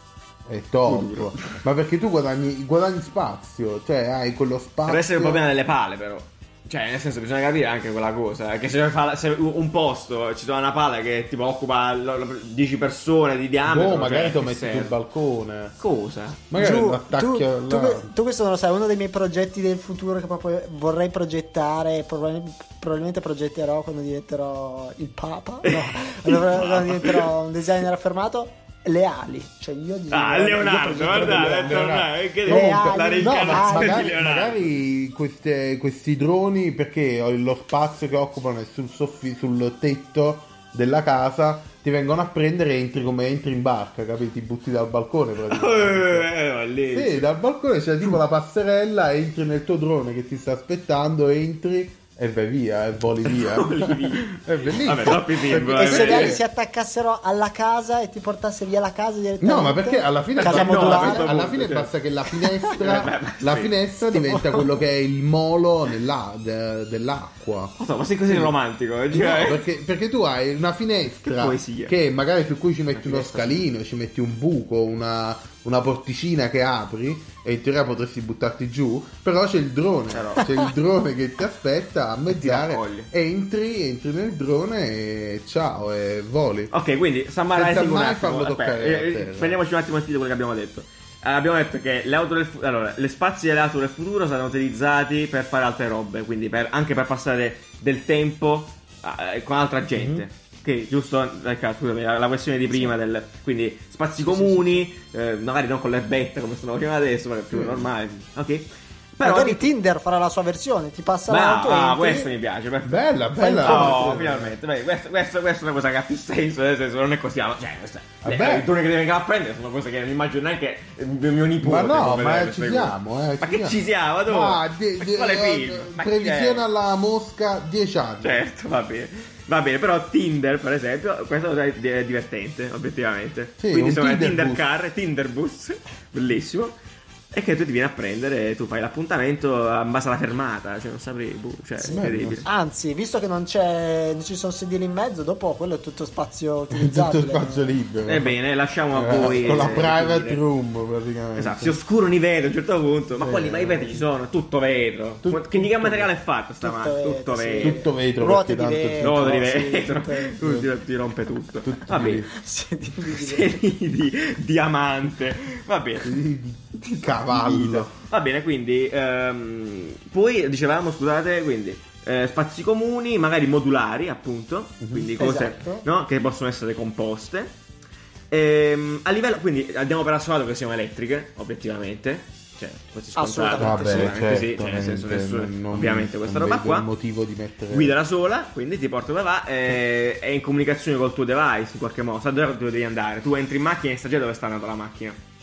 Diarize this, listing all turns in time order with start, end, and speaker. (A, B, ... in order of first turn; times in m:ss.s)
0:00.5-0:05.4 A
0:00.8-0:01.6 B
0:04.8-0:15.0 B
0:13.6-0:15.8 A
0:15.8-0:16.4 B
0:16.5-0:18.1 A
0:16.6-0:31.8 C
0:25.6-0:27.3 B
0:30.1-0:34.7 B
0:31.0-0:46.3 A
0:32.5-0:34.1 C
0:45.5-0:47.3 B
0:46.9-0:56.4 A
0:53.2-0:56.4 B
0:55.6-1:01.3 C
0:59.4-1:07.8 A
1:00.4-1:03.8 B
1:04.0-1:04.7 C
1:07.8-1:09.6 B
1:08.3-1:08.5 A
1:09.1-1:26.7 A
1:11.2-1:11.9 B
1:12.9-1:13.6 B
1:20.1-1:20.6 B
1:22.3-1:23.1 B
1:26.7-1:49.7 B
1:27.5-1:29.6 A
1:40.0-1:40.2 A
1:44.2-1:44.8 A
1:47.5-1:47.9 A
1:49.2-1:52.3 C
1:51.3-2:06.7 B
1:52.8-1:54.5 A
1:53.4-1:54.2 C
1:58.2-1:58.7 A
2:01.6-2:08.4 A
2:08.2-2:16.8 B
2:13.6-2:14.6 A
2:17.3-2:22.4 B
2:21.8-2:22.4 A
2:22.4-2:27.7 C
2:26.7-2:28.4 A
2:28.0-2:30.4 B
2:28.9-2:31.8 A
2:31.4-2:37.8 B
2:33.2-2:34.0 A
2:35.2-2:36.1 A
2:36.6-2:40.4 C
2:37.6-2:39.8 A
2:39.0-2:42.3 B
2:40.4-2:40.7 A
2:41.6-2:42.3 A
2:42.3-2:43.5 C
2:43.1-2:46.1 B
2:46.0-2:47.9 A
2:47.3-2:57.5 B
2:54.8-2:55.1 A
2:55.2-2:55.8 C
2:58.3-3:06.9 B
3:03.1-3:04.1 C
3:03.6-3:07.9 A
3:07.7-3:15.2 B